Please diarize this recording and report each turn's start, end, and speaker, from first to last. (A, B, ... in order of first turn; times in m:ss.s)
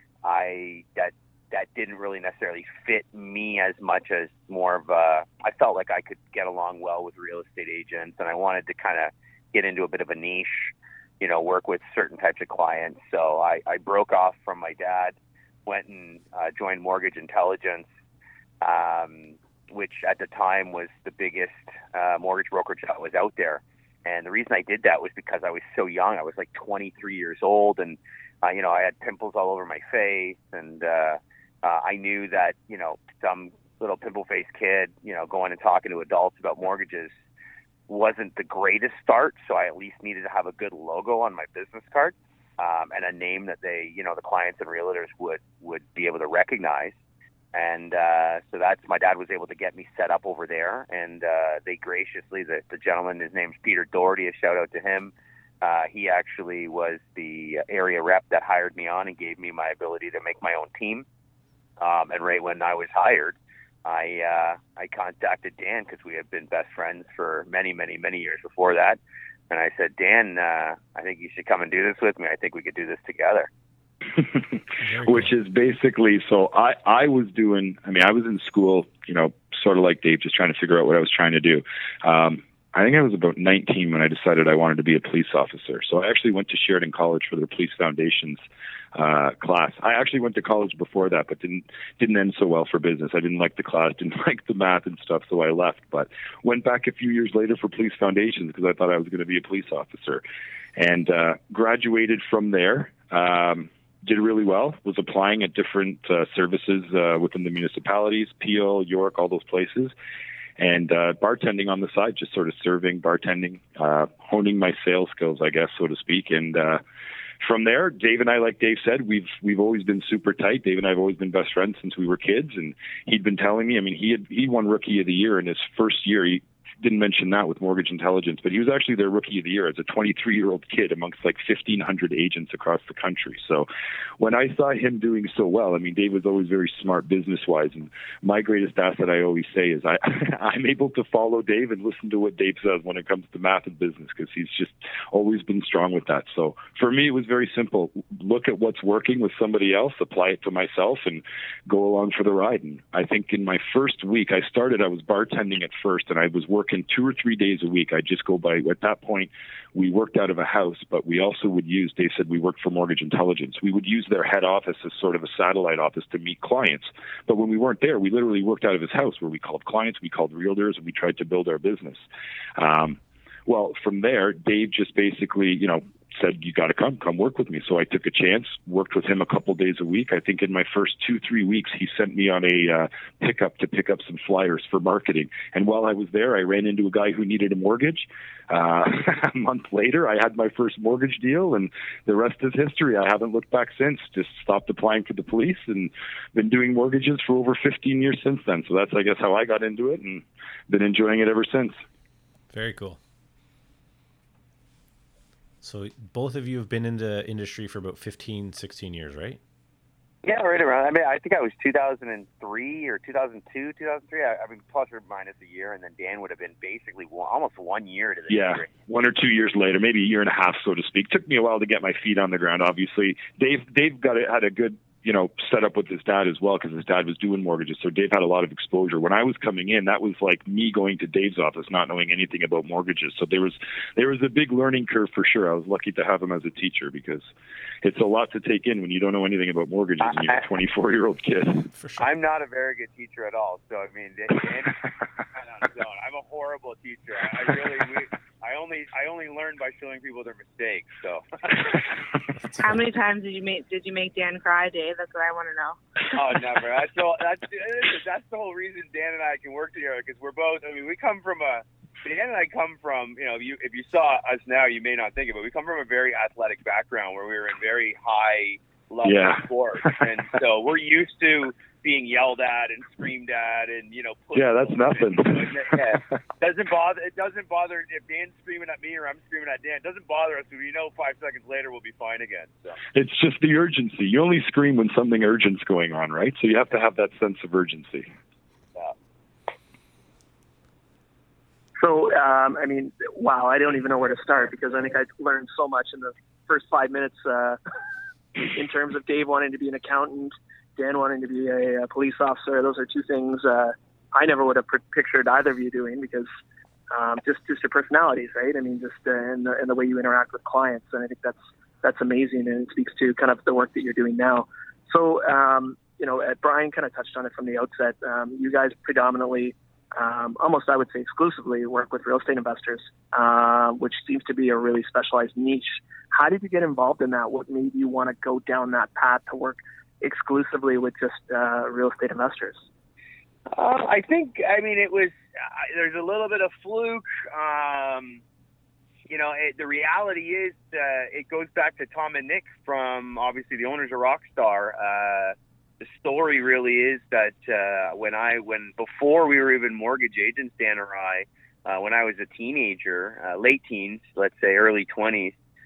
0:00.2-0:17.8 A
0:18.6-0:37.1 A
0:37.9-0:47.0 A
0:47.5-1:01.0 A
1:01.8-1:09.0 A
1:09.5-1:13.5 A
1:14.1-1:28.4 B
1:14.8-1:15.3 C
1:28.9-1:40.2 B
1:40.8-1:49.9 B
1:50.6-1:56.8 B
1:57.4-2:13.6 B
2:14.2-2:52.0 B
2:52.6-3:21.8 B
3:22.5-3:23.0 C
3:25.6-3:29.4 C
3:30.2-3:38.7 A
3:38.3-3:57.3 B
3:57.8-4:01.7 B
4:00.0-4:00.4 A
4:01.8-4:02.1 C
4:02.0-4:11.9 A
4:12.6-4:15.8 D
4:16.1-4:42.8 A
4:29.0-4:30.1 B
4:34.3-4:36.0 B
4:42.9-4:48.1 B
4:51.8-4:57.6 E
4:58.5-5:06.3 E
5:06.9-5:32.6 E
5:33.5-5:38.2 A
5:39.1-5:55.3 A